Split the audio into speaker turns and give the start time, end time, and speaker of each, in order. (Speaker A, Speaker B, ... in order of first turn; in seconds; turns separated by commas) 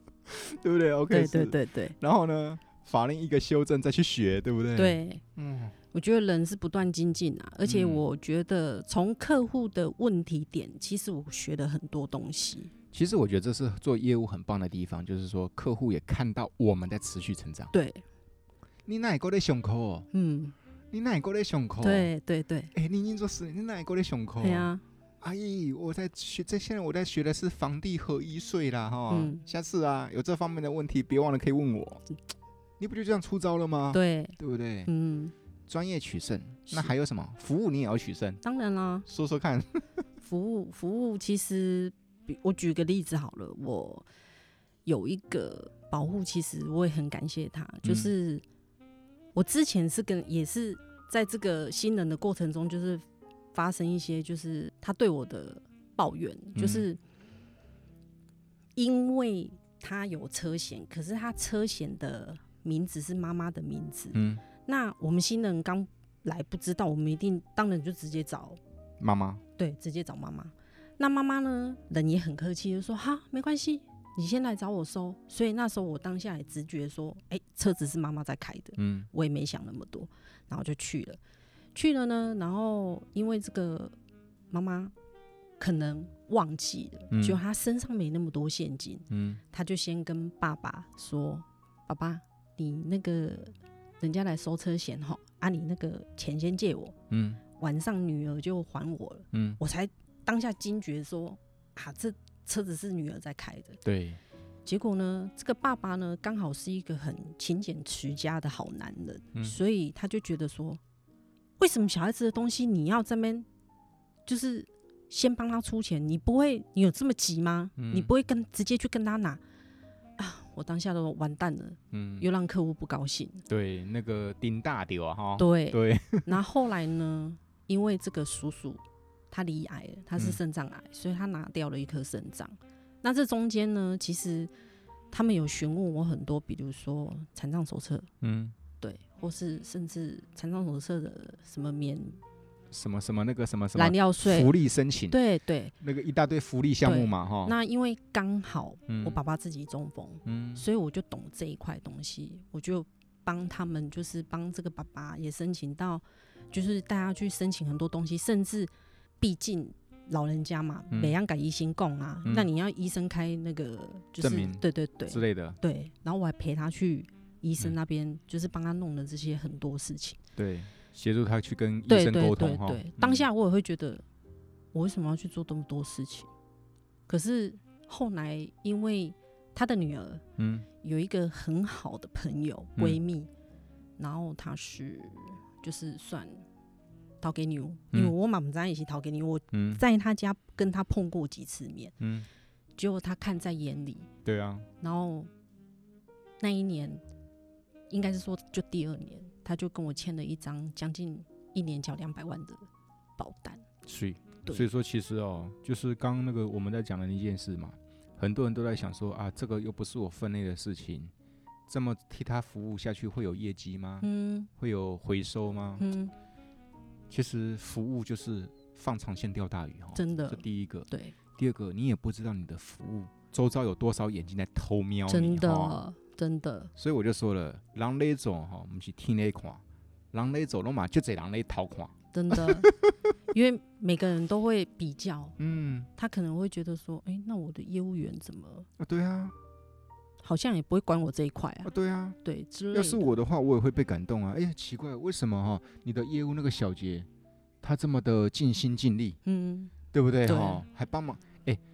Speaker A: 0.3-5.7, Speaker B: 1.1-1.9, Speaker B: 4.8-5.2, Speaker B: 5.9-12.7, Speaker A: 7.6-8.0, Speaker A: 12.9-17.7, Speaker B: 17.7-18.0, Speaker A: 18.9-20.1, Speaker B: 20.1-20.5, Speaker A: 20.9-22.1, Speaker B: 21.8-22.7, Speaker A: 22.7-24.7, Speaker B: 24.4-24.8, Speaker A: 25.2-32.0, Speaker B: 29.1-29.4, Speaker A: 32.8-34.9, Speaker B: 33.9-35.3, Speaker A: 35.7-38.4, Speaker B: 38.4-39.1, Speaker A: 39.1-39.9, Speaker B: 40.2-44.0, Speaker B: 44.9-48.4, Speaker A: 47.8-48.1, Speaker B: 49.3-57.0, Speaker A: 56.5-56.9, Speaker B: 58.8-68.6, Speaker A: 64.1-64.4, Speaker A: 69.0-69.4, Speaker B: 69.6-81.2, Speaker A: 78.8-79.1, Speaker B: 81.7-83.9, Speaker B: 84.5-84.9, Speaker B: 85.6-97.0, Speaker A: 87.1-87.4, Speaker A: 89.1-89.4, Speaker A: 97.1-97.4, Speaker B: 97.5-103.8, Speaker A: 99.3-99.6, Speaker A: 103.8-104.2, Speaker B: 104.7-110.8, Speaker B: 111.6-113.5, Speaker B: 114.2-119.4, Speaker A: 117.8-118.1, Speaker B: 120.2-123.4, Speaker A: 121.9-122.3, Speaker A: 123.5-126.4, Speaker B: 125.4-134.5, Speaker B: 135.1-138.1, Speaker A: 138.2-138.6, Speaker B: 138.8-142.2, Speaker A: 142.7-145.2, Speaker B: 143.7-144.5, Speaker B: 145.1-145.7, Speaker A: 145.8-147.6, Speaker B: 146.8-158.7, Speaker A: 148.9-149.2, Speaker A: 150.2-150.7, Speaker B: 159.2-170.2, Speaker A: 162.2-162.5, Speaker A: 164.2-165.6, Speaker A: 170.4-173.2, Speaker B: 171.9-174.0, Speaker B: 174.7-176.3, Speaker B: 177.1-180.2, Speaker A: 180.4-180.7, Speaker B: 180.8-183.3, Speaker B: 184.0-186.4, Speaker B: 187.2-191.9, Speaker A: 189.5-189.8, Speaker A: 192.0-192.3, Speaker B: 192.8-194.1, Speaker A: 194.2-194.7, Speaker B: 194.8-195.3, Speaker B: 196.4-197.0, Speaker B: 197.9-202.6, Speaker B: 203.2-203.6, Speaker A: 203.8-211.1, Speaker A: 211.7-214.1, Speaker B: 214.0-214.5, Speaker A: 214.6-215.8, Speaker B: 215.8-216.1, Speaker A: 217.1-225.8, Speaker B: 219.9-221.2, Speaker B: 225.1-226.7, Speaker A: 226.8-232.9, Speaker B: 232.1-232.7, Speaker B: 233.3-235.3, Speaker A: 235.4-235.9, Speaker B: 236.0-238.7, Speaker A: 238.8-239.3, Speaker B: 240.2-241.7, Speaker A: 241.6-242.2, Speaker B: 242.2-243.2, Speaker A: 242.7-247.1, Speaker A: 247.6-249.2, Speaker B: 249.2-249.7, Speaker A: 249.9-251.6, Speaker B: 250.2-250.6